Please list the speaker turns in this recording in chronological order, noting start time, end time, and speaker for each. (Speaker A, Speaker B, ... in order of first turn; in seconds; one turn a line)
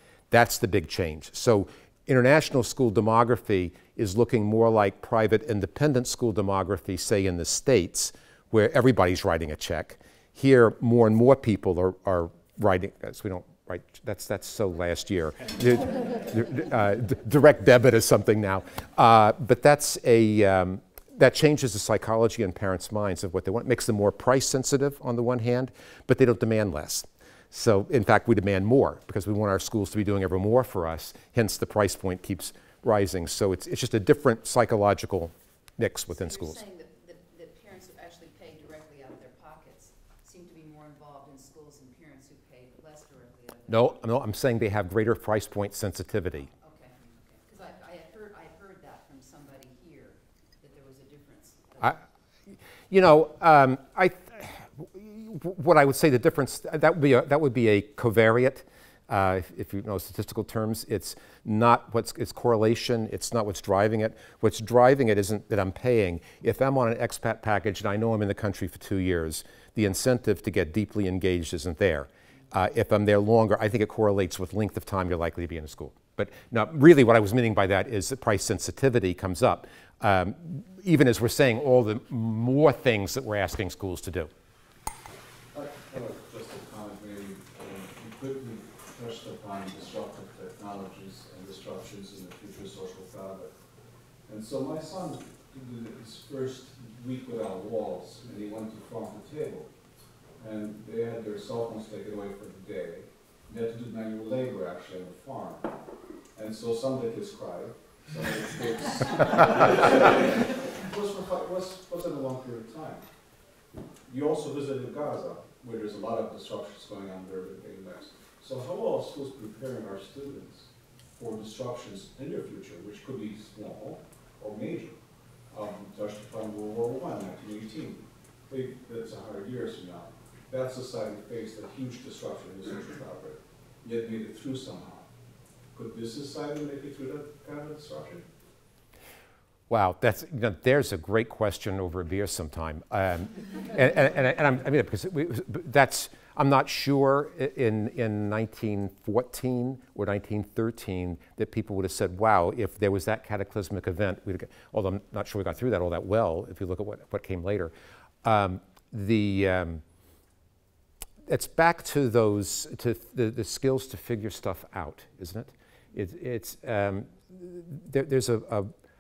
Speaker A: 0.3-36.6
Speaker B: 36.1-44.0
Speaker A: 43.7-46.5
Speaker B: 46.4-52.0
Speaker A: 51.8-84.3
Speaker C: 85.5-93.5
Speaker C: 94.3-99.7
Speaker C: 100.4-105.7
Speaker C: 106.3-113.0
Speaker C: 114.1-125.0
Speaker C: 125.5-135.1
Speaker C: 135.7-138.2
Speaker A: 139.7-157.7
Speaker A: 158.2-159.8
Speaker A: 161.3-168.7